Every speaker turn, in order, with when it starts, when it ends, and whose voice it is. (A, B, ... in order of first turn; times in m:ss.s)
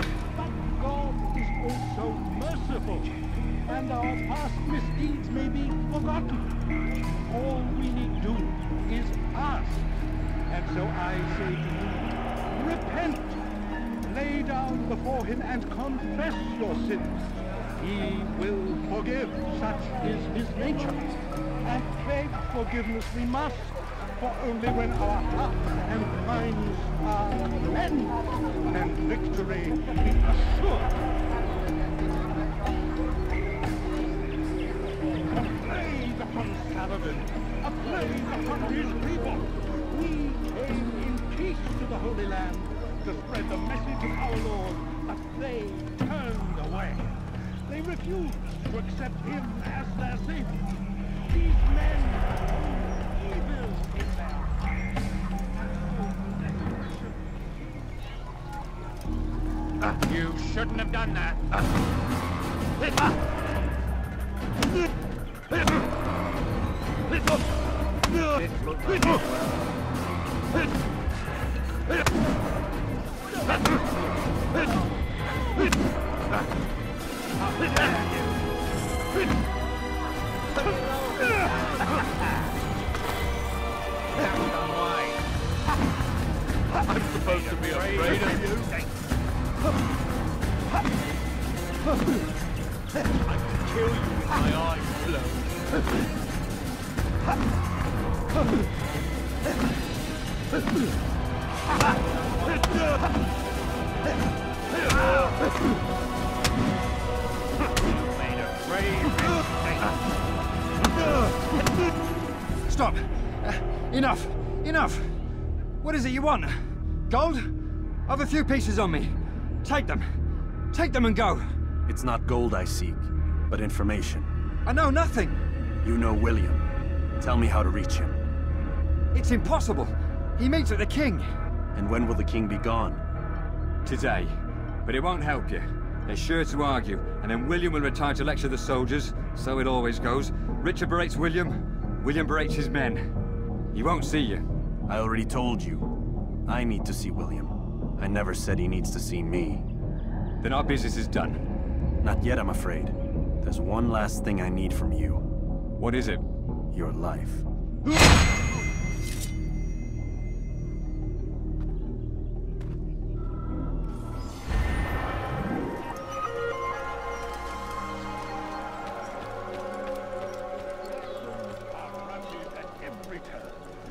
0:00.3-0:06.6 A
0:07.2-0:09.9 A
0:10.5-0:13.4 A
0:14.0-0:31.0 A
0:35.3-0:54.8 A
0:55.6-0:57.5 A
1:00.0-1:01.4 B
1:08.4-1:09.1 C
1:17.6-1:18.0 B
1:24.4-1:25.2 B
1:27.0-1:28.9 B
1:27.0-1:28.4 C
1:33.3-1:35.4 C
1:47.9-1:49.6 B
1:52.6-1:55.0 D
1:55.8-1:56.5 D
1:57.1-1:57.4 D
1:58.1-2:00.0 D
2:00.7-2:01.4 D
2:01.9-2:04.3 E
2:04.6-2:05.4 D
2:05.8-2:06.6 E
2:07.2-2:08.2 E
2:09.1-2:11.3 D
2:11.7-2:13.0 E
2:13.8-2:14.3 D
2:14.8-2:23.0 D
2:23.7-2:24.4 D
2:24.9-2:25.9 E
2:26.5-2:29.6 E
2:30.4-2:31.4 D
2:32.0-2:35.2 E
2:35.8-2:36.2 D
2:36.7-2:37.4 E
2:51.0-2:53.6 A